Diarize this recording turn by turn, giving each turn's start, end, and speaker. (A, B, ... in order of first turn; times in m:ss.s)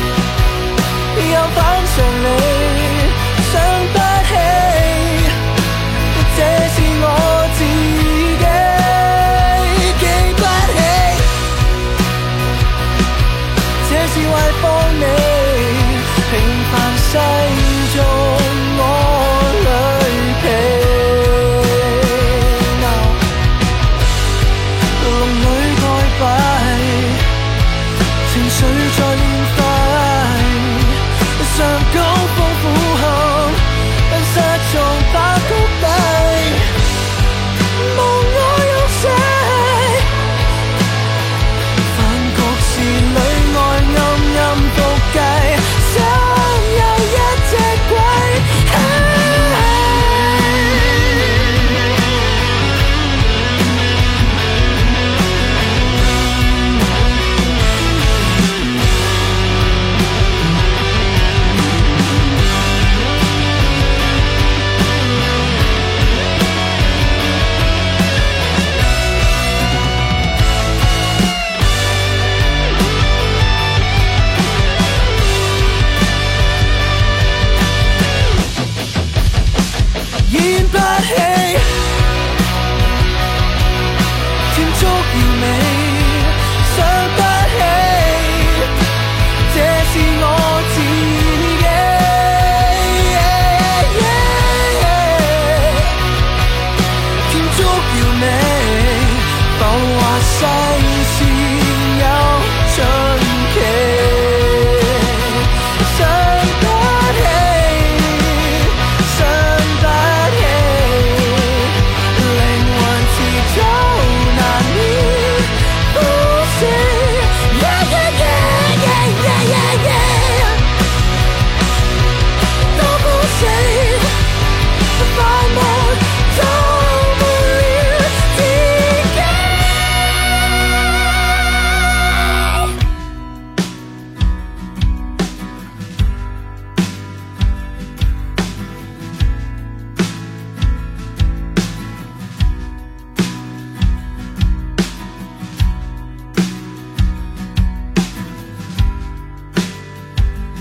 0:01.1-0:05.4 A
0:06.1-0:11.3 A
0:13.8-0:23.2 A
0:25.0-0:27.3 A
0:28.2-0:36.6 A
0:37.7-0:40.1 A
0:41.9-0:51.3 A
1:20.2-1:21.7 A
1:24.5-1:28.7 A
1:29.5-1:36.0 A
1:37.3-2:00.6 A
2:02.7-2:04.2 A
2:04.9-2:09.7 A